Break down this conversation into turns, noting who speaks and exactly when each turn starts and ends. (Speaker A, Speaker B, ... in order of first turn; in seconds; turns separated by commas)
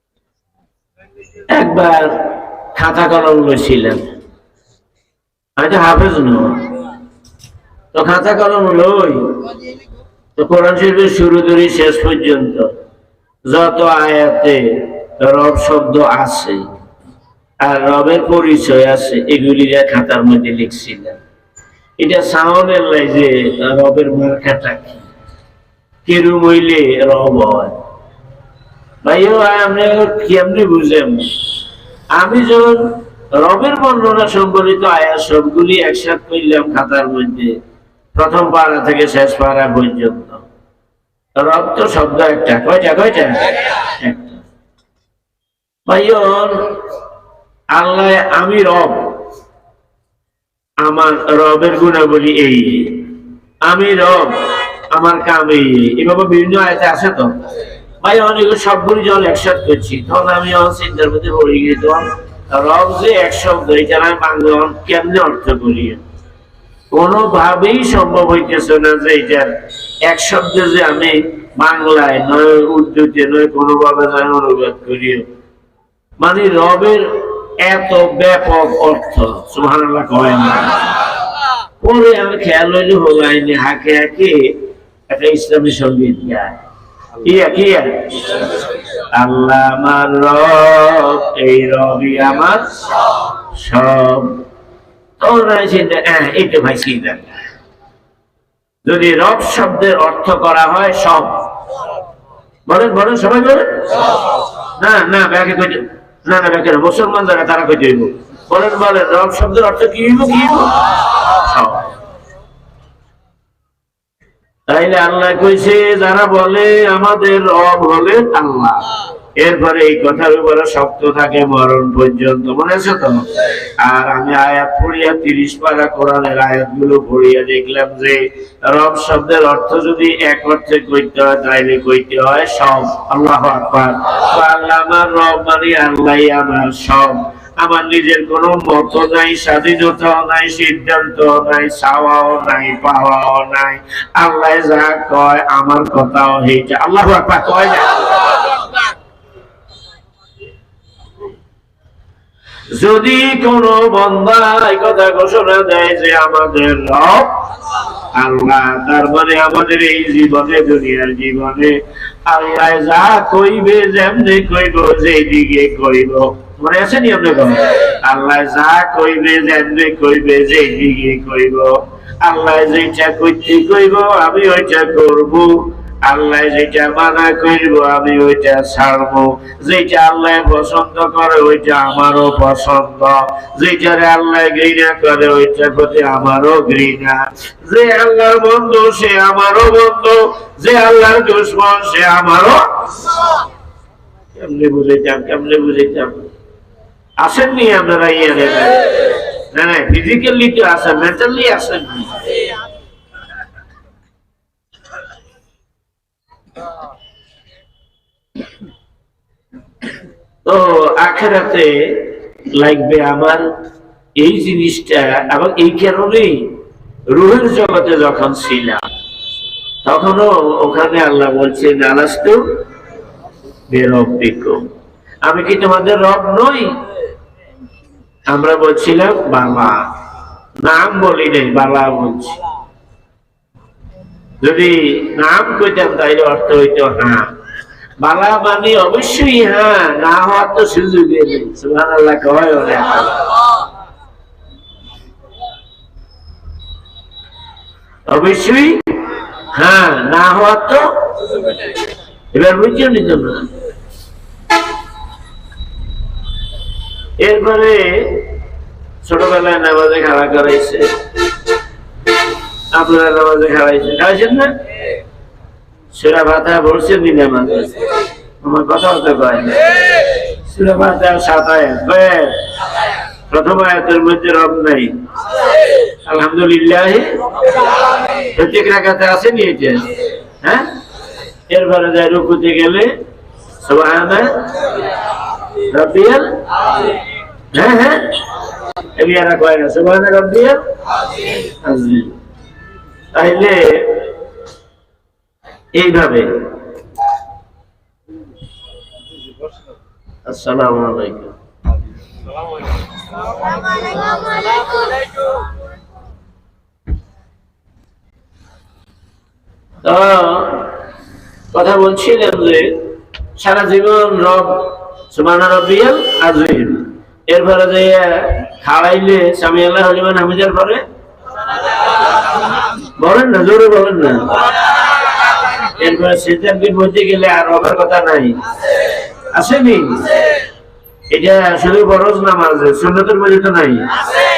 Speaker A: 1.5-4.1, Speaker A: 5.6-6.7, Speaker A: 7.9-9.5, Speaker A: 10.3-12.7, Speaker A: 13.5-16.7, Speaker A: 17.6-21.2, Speaker A: 22.0-25.0, Speaker A: 26.0-27.8, Speaker A: 29.0-31.4, Speaker A: 32.1-37.6, Speaker A: 38.1-40.4, Speaker A: 41.4-44.4, Speaker A: 45.9-46.8, Speaker A: 47.7-49.2, Speaker A: 50.8-57.3, Speaker A: 58.0-66.0, Speaker A: 66.9-69.5, Speaker A: 70.0-75.3, Speaker A: 76.2-80.9, Speaker A: 81.8-86.6, Speaker A: 87.2-88.4, Speaker A: 89.1-94.4, Speaker A: 95.2-97.3, Speaker A: 98.8-101.4, Speaker A: 102.7-104.1, Speaker A: 104.8-111.9, Speaker A: 114.7-118.8, Speaker A: 119.4-148.3, Speaker A: 152.7-157.4, Speaker A: 158.1-192.6, Speaker A: 194.3-196.3, Speaker A: 197.2-202.3, Speaker A: 210.4-213.5, Speaker A: 214.2-218.8, Speaker A: 219.8-222.4, Speaker A: 223.7-224.7, Speaker A: 225.2-226.7, Speaker A: 228.3-229.9, Speaker A: 230.6-232.4, Speaker A: 234.4-237.3, Speaker A: 238.0-243.2, Speaker A: 248.1-249.0, Speaker A: 249.5-251.0, Speaker A: 252.3-253.5, Speaker A: 257.2-258.4, Speaker A: 259.0-260.9, Speaker A: 262.7-264.5, Speaker A: 265.9-267.7, Speaker A: 268.4-269.6, Speaker A: 270.4-272.4, Speaker A: 273.3-274.9, Speaker A: 276.0-277.2, Speaker A: 278.1-280.7, Speaker A: 281.5-282.9, Speaker A: 283.6-284.6, Speaker A: 285.7-286.4, Speaker A: 287.5-288.2, Speaker A: 288.9-290.6, Speaker A: 291.3-292.1, Speaker A: 293.1-294.1, Speaker A: 295.7-296.6, Speaker A: 300.2-301.4, Speaker A: 309.8-310.8, Speaker A: 311.5-320.8, Speaker A: 322.9-324.4, Speaker A: 325.8-328.4, Speaker A: 329.3-330.3, Speaker A: 331.1-333.9